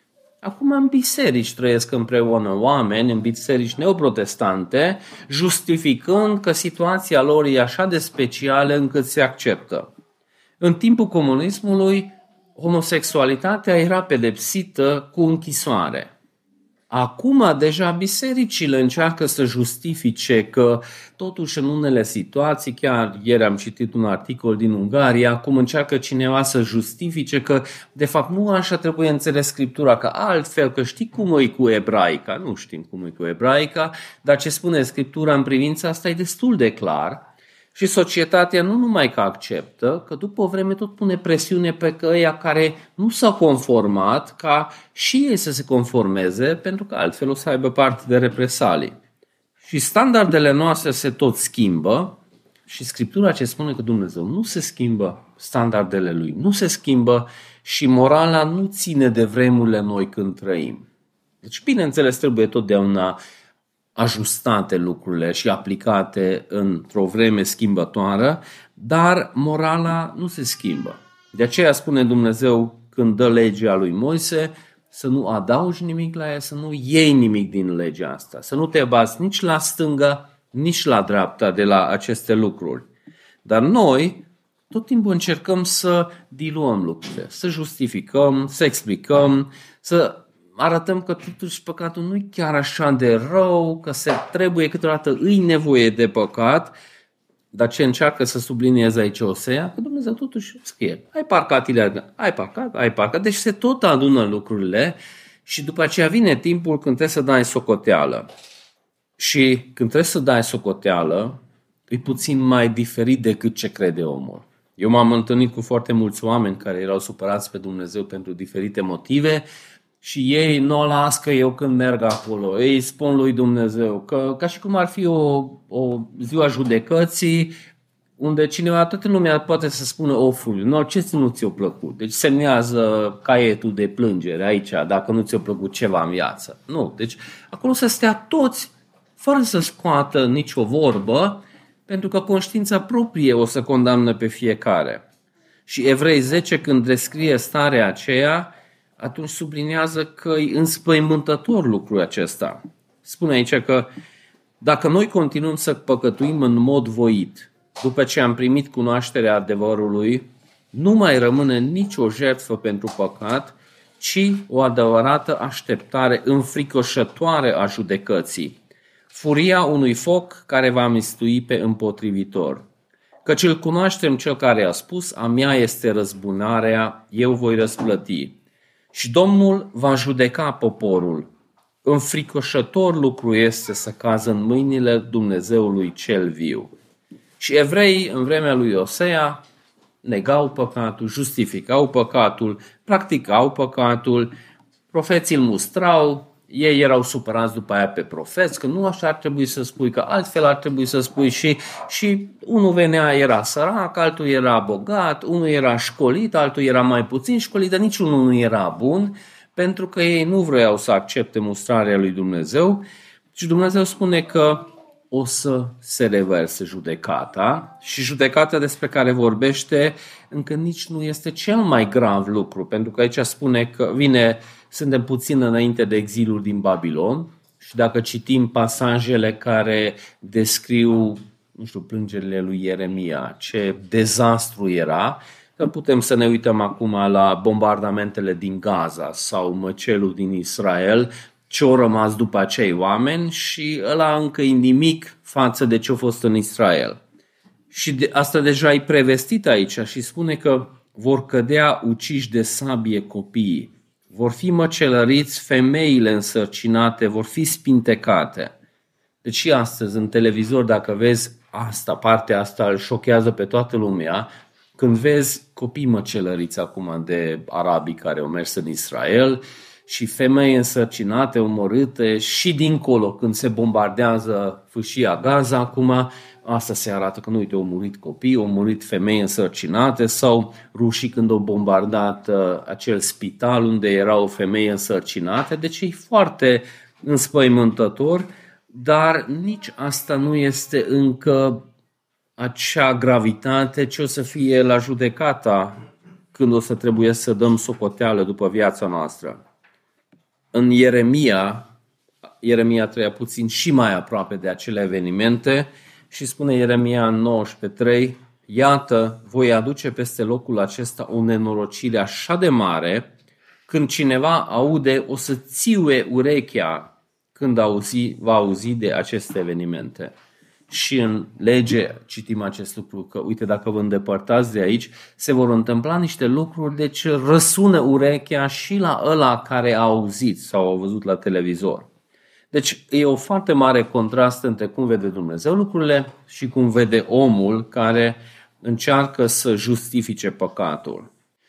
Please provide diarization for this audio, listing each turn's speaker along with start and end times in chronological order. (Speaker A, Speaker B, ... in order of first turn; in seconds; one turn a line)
Speaker A: 0.4-9.9
Speaker A: 10.6-16.1
Speaker A: 16.9-49.0
Speaker A: 49.6-52.2
Speaker A: 52.7-60.9
Speaker A: 61.4-63.2
Speaker A: 64.0-82.9
Speaker A: 83.5-96.7
Speaker A: 97.5-108.3
Speaker A: 109.2-119.5
Speaker A: 120.0-127.5
Speaker A: 128.2-145.0
Speaker A: 145.7-153.9
Speaker A: 154.6-168.6
Speaker A: 169.1-172.7
Speaker A: 173.2-178.4
Speaker A: 178.9-181.3
Speaker A: 181.8-186.7
Speaker A: 187.4-189.4
Speaker A: 190.0-194.3
Speaker A: 194.9-212.8
Speaker A: 213.3-247.0
Speaker A: 247.7-258.5
Speaker A: 259.2-291.6
Speaker A: 292.4-295.8
Speaker A: 296.3-299.4
Speaker A: 300.5-301.7
Speaker A: 302.4-313.1
Speaker A: 313.7-320.1
Speaker A: 320.7-331.9
Speaker A: 332.5-341.1